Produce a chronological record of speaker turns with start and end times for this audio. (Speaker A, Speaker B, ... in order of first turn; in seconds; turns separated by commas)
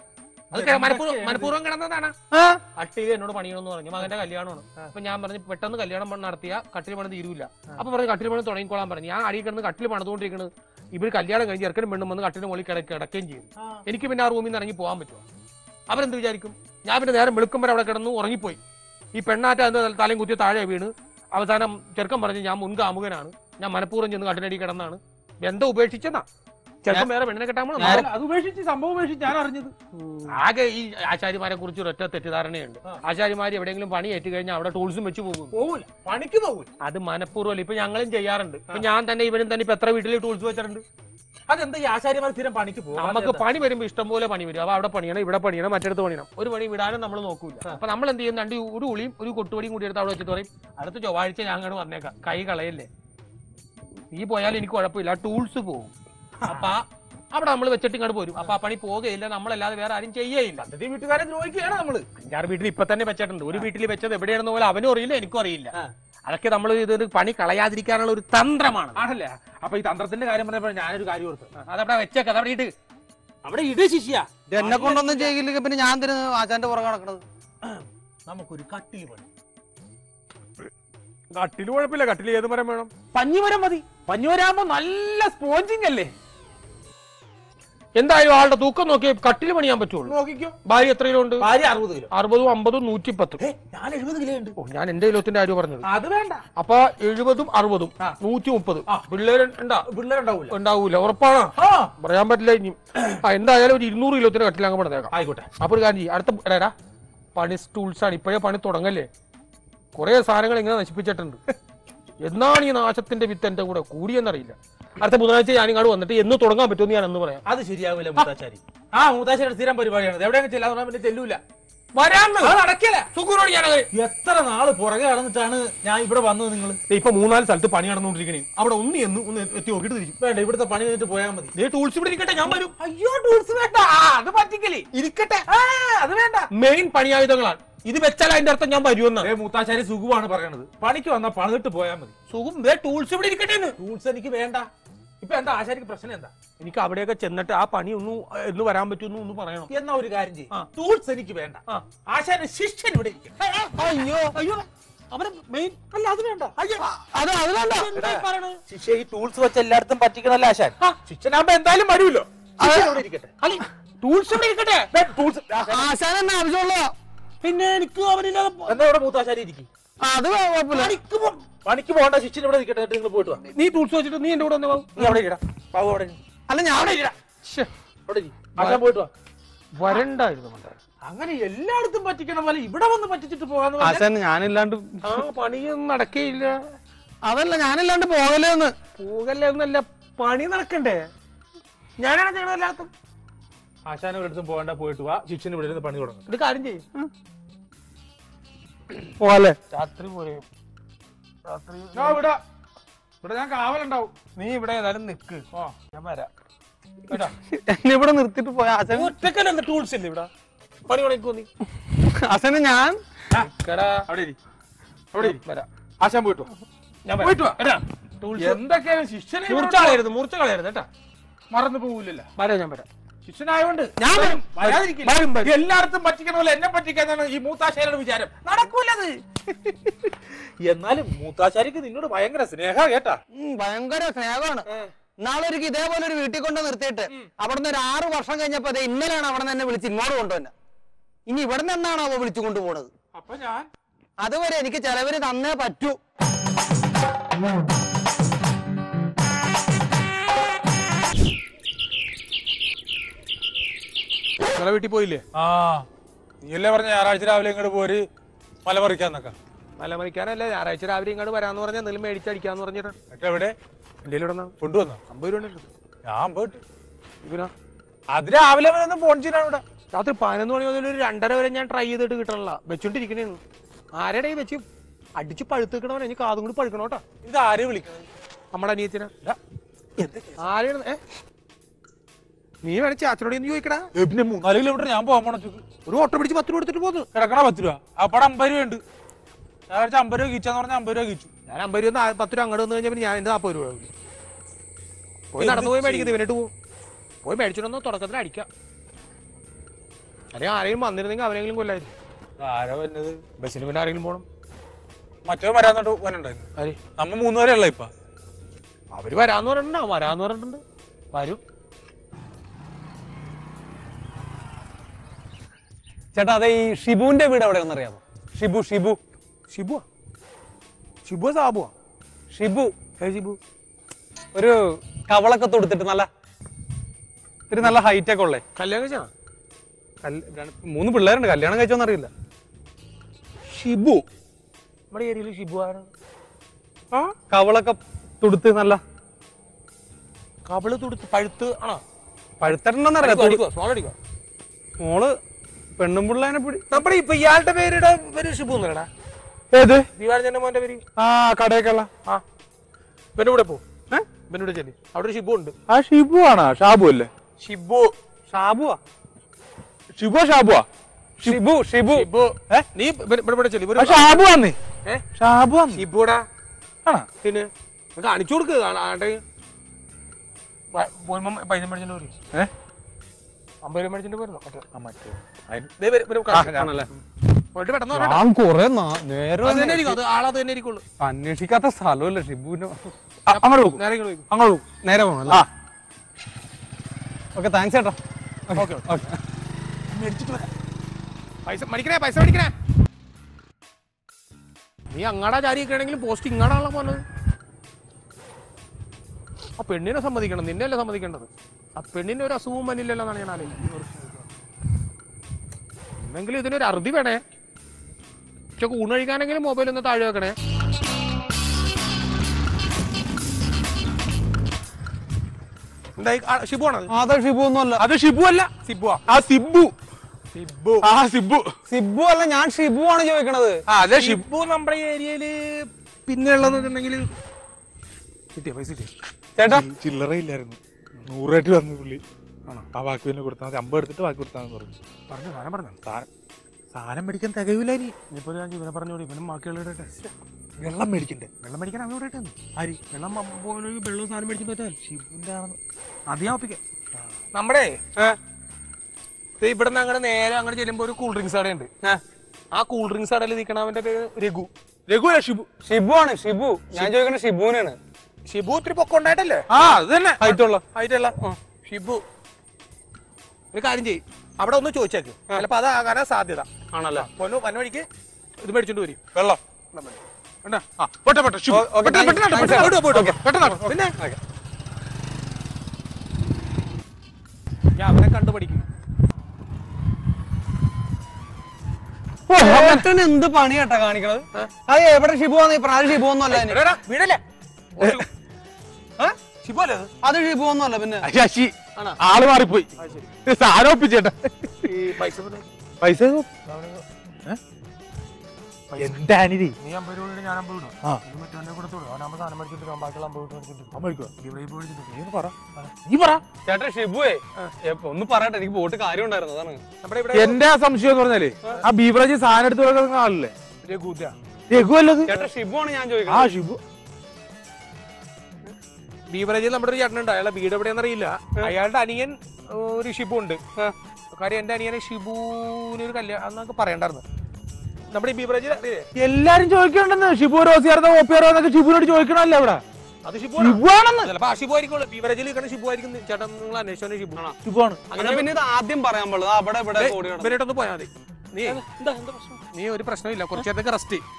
Speaker A: 0.5-1.5, Speaker B: 0.5-2.1, Speaker C: 2.3-2.6, Speaker B: 2.7-15.2, Speaker A: 13.6-13.8, Speaker B: 15.9-18.6, Speaker B: 19.1-26.2, Speaker B: 26.8-28.1, Speaker A: 27.8-29.7, Speaker C: 27.8-28.1, Speaker B: 30.0-35.5, Speaker A: 35.5-36.7, Speaker B: 36.8-40.8, Speaker A: 41.5-43.4, Speaker B: 43.0-52.9, Speaker B: 54.1-55.9, Speaker A: 56.4-56.7, Speaker B: 56.5-60.6, Speaker A: 60.6-62.1, Speaker B: 62.2-65.7, Speaker B: 66.2-69.0, Speaker A: 68.9-71.5, Speaker B: 71.5-72.7, Speaker A: 73.4-75.1, Speaker C: 74.5-77.2, Speaker B: 74.9-75.2, Speaker A: 77.6-79.2, Speaker B: 81.3-82.9, Speaker A: 83.1-86.1, Speaker B: 88.0-91.5, Speaker A: 90.0-90.5, Speaker A: 91.4-92.1, Speaker B: 92.1-93.4, Speaker A: 93.4-94.5, Speaker B: 94.6-95.8, Speaker A: 95.8-96.4, Speaker B: 96.5-99.8, Speaker A: 99.9-100.5, Speaker B: 100.5-106.7, Speaker A: 101.6-101.9, Speaker A: 105.1-105.5, Speaker B: 107.3-109.1, Speaker B: 109.9-111.4, Speaker B: 112.2-117.4, Speaker A: 117.5-121.4, Speaker B: 121.9-122.5, Speaker A: 122.4-123.1, Speaker B: 123.1-123.9, Speaker A: 123.9-126.8, Speaker B: 126.9-130.2, Speaker A: 130.2-131.5, Speaker B: 131.5-132.7, Speaker A: 132.4-134.9, Speaker B: 134.9-135.4, Speaker A: 135.5-136.5, Speaker B: 136.5-139.3, Speaker A: 139.2-142.1, Speaker B: 142.3-143.8, Speaker A: 143.8-144.7, Speaker A: 145.2-146.3, Speaker B: 146.6-149.7, Speaker A: 149.7-154.0, Speaker B: 153.5-154.6, Speaker C: 153.8-154.4, Speaker A: 155.1-156.9, Speaker C: 157.0-158.0, Speaker A: 157.7-163.4, Speaker B: 157.9-158.2, Speaker C: 162.6-163.0, Speaker B: 163.4-164.9, Speaker A: 164.3-165.9, Speaker C: 165.6-166.9, Speaker B: 167.4-168.8, Speaker A: 168.7-169.7, Speaker C: 170.0-171.0, Speaker B: 170.7-171.3, Speaker A: 171.1-173.4, Speaker B: 173.4-175.2, Speaker A: 174.9-176.2, Speaker C: 176.5-177.1, Speaker B: 176.7-177.7, Speaker A: 178.1-179.1, Speaker B: 179.7-180.8, Speaker A: 181.0-184.1, Speaker C: 183.8-185.2, Speaker B: 185.0-186.6, Speaker C: 187.2-188.7, Speaker B: 189.0-191.1, Speaker B: 192.0-192.9, Speaker A: 193.8-196.2, Speaker B: 196.3-196.8, Speaker C: 199.2-199.6, Speaker B: 199.7-200.4, Speaker B: 201.4-202.2, Speaker A: 201.9-202.4, Speaker A: 203.2-204.1, Speaker B: 204.3-206.3, Speaker B: 207.1-207.3, Speaker C: 207.5-209.1, Speaker B: 208.9-210.3, Speaker B: 210.9-211.5, Speaker C: 211.9-213.0, Speaker B: 213.5-214.1, Speaker A: 214.1-214.4, Speaker A: 215.1-215.4, Speaker B: 215.2-215.7, Speaker A: 216.0-216.5, Speaker B: 217.1-218.6, Speaker A: 217.2-217.6, Speaker A: 218.4-220.0, Speaker B: 219.5-220.9, Speaker A: 221.5-222.3, Speaker B: 222.3-222.9, Speaker A: 223.2-233.2, Speaker B: 224.0-225.5, Speaker C: 233.3-234.7, Speaker C: 235.2-240.5, Speaker C: 241.3-242.9, Speaker A: 243.1-243.7, Speaker C: 244.2-246.0, Speaker B: 254.5-255.2, Speaker A: 255.3-255.9, Speaker A: 256.4-258.1, Speaker A: 258.6-259.3, Speaker B: 259.8-262.9, Speaker A: 263.1-263.6, Speaker B: 264.0-265.7, Speaker A: 264.6-265.0, Speaker A: 266.0-266.6, Speaker B: 267.2-267.5, Speaker A: 268.1-269.6, Speaker B: 269.9-273.4, Speaker B: 273.9-274.6, Speaker B: 275.2-277.0, Speaker A: 277.2-278.1, Speaker B: 278.5-279.1, Speaker A: 280.0-280.4, Speaker B: 280.4-281.0, Speaker B: 282.6-283.9, Speaker A: 283.9-285.6, Speaker B: 285.9-287.1, Speaker A: 287.1-288.8, Speaker A: 289.7-291.3, Speaker B: 291.5-293.9, Speaker B: 295.3-296.5, Speaker A: 295.4-296.1, Speaker B: 297.2-298.5, Speaker B: 300.3-301.9, Speaker A: 302.4-303.2, Speaker B: 303.4-304.2, Speaker A: 305.2-306.4, Speaker A: 307.0-307.9, Speaker B: 308.9-310.6, Speaker B: 311.1-311.4, Speaker C: 316.1-319.0, Speaker B: 319.5-319.8, Speaker B: 321.0-321.7, Speaker C: 322.3-322.7, Speaker B: 323.0-323.4, Speaker C: 324.3-326.1, Speaker C: 327.5-328.4, Speaker B: 328.6-329.1, Speaker C: 330.0-332.1, Speaker A: 333.5-334.0, Speaker B: 334.9-335.9, Speaker C: 337.3-338.8, Speaker B: 340.4-341.8, Speaker C: 342.4-343.4, Speaker B: 343.0-343.9, Speaker C: 344.8-345.2, Speaker C: 345.8-346.8, Speaker B: 346.7-348.9, Speaker A: 349.5-349.9, Speaker B: 349.9-350.8, Speaker A: 351.0-351.9, Speaker B: 353.1-353.6, Speaker B: 354.3-355.5, Speaker A: 355.7-357.1, Speaker B: 357.4-357.8, Speaker C: 358.3-358.8, Speaker A: 359.9-360.7, Speaker C: 361.2-362.1, Speaker B: 361.9-364.2, Speaker A: 363.8-364.6, Speaker A: 365.1-365.8, Speaker B: 365.7-366.2, Speaker B: 367.2-369.2, Speaker B: 370.7-372.1, Speaker B: 373.6-374.6, Speaker A: 374.7-375.7, Speaker B: 375.8-377.0, Speaker C: 376.3-376.9, Speaker B: 377.5-378.2, Speaker C: 377.9-380.0, Speaker B: 379.4-380.8, Speaker C: 381.0-382.8, Speaker A: 383.3-384.6, Speaker B: 383.3-384.3, Speaker C: 384.8-385.4, Speaker C: 387.3-387.9, Speaker C: 388.5-389.2, Speaker B: 388.6-388.8, Speaker A: 389.9-390.5, Speaker B: 391.4-392.5, Speaker B: 394.9-397.0, Speaker B: 399.6-403.6, Speaker A: 403.6-404.1, Speaker B: 406.0-407.2, Speaker B: 408.6-410.4, Speaker B: 416.0-416.9, Speaker C: 416.9-417.8, Speaker A: 417.8-418.5, Speaker B: 418.5-419.0, Speaker A: 419.1-419.7, Speaker B: 420.3-420.9, Speaker A: 420.8-421.5, Speaker C: 421.7-423.6, Speaker A: 423.7-424.2, Speaker B: 423.8-427.1, Speaker B: 428.3-428.9, Speaker C: 429.4-429.7, Speaker A: 429.5-432.0, Speaker A: 432.7-434.8, Speaker B: 435.1-435.8, Speaker A: 436.7-437.9, Speaker B: 438.1-439.9, Speaker A: 440.6-441.3, Speaker B: 441.4-442.4, Speaker B: 442.9-444.8, Speaker A: 444.8-445.6, Speaker B: 446.1-446.6, Speaker B: 447.3-447.8, Speaker B: 449.4-451.7, Speaker B: 452.5-454.5, Speaker A: 454.9-455.5, Speaker C: 455.6-457.8, Speaker B: 458.2-459.5, Speaker A: 459.5-460.2, Speaker C: 460.2-460.6, Speaker B: 460.2-462.0, Speaker B: 463.5-467.9, Speaker C: 466.7-467.1, Speaker B: 468.4-469.0, Speaker B: 469.7-470.6, Speaker A: 470.8-472.6, Speaker C: 471.5-474.2, Speaker B: 471.8-473.9, Speaker A: 473.3-473.6, Speaker B: 477.7-478.6, Speaker C: 482.3-486.6, Speaker B: 482.4-482.9, Speaker B: 486.3-487.2, Speaker B: 487.8-488.1, Speaker B: 489.0-489.9, Speaker C: 490.0-491.1, Speaker A: 491.0-492.7, Speaker B: 492.8-493.1, Speaker A: 493.2-494.7, Speaker B: 494.6-495.4, Speaker A: 495.8-496.3, Speaker B: 496.4-496.8, Speaker B: 498.7-499.0, Speaker A: 498.8-499.6, Speaker B: 499.6-504.9, Speaker A: 503.7-504.1, Speaker A: 504.9-505.3, Speaker A: 505.8-506.2, Speaker C: 506.4-509.6, Speaker B: 509.8-510.4, Speaker A: 510.1-513.3, Speaker B: 513.6-514.1, Speaker A: 514.5-515.1, Speaker C: 515.0-516.3, Speaker A: 516.1-516.6, Speaker B: 519.1-523.4, Speaker B: 524.1-527.0, Speaker B: 527.9-528.9, Speaker A: 529.0-532.6, Speaker B: 533.0-537.2, Speaker A: 533.4-534.1, Speaker A: 537.4-537.9, Speaker B: 537.9-538.3, Speaker C: 537.9-540.4, Speaker B: 539.8-541.6, Speaker A: 541.5-542.4, Speaker B: 542.5-544.0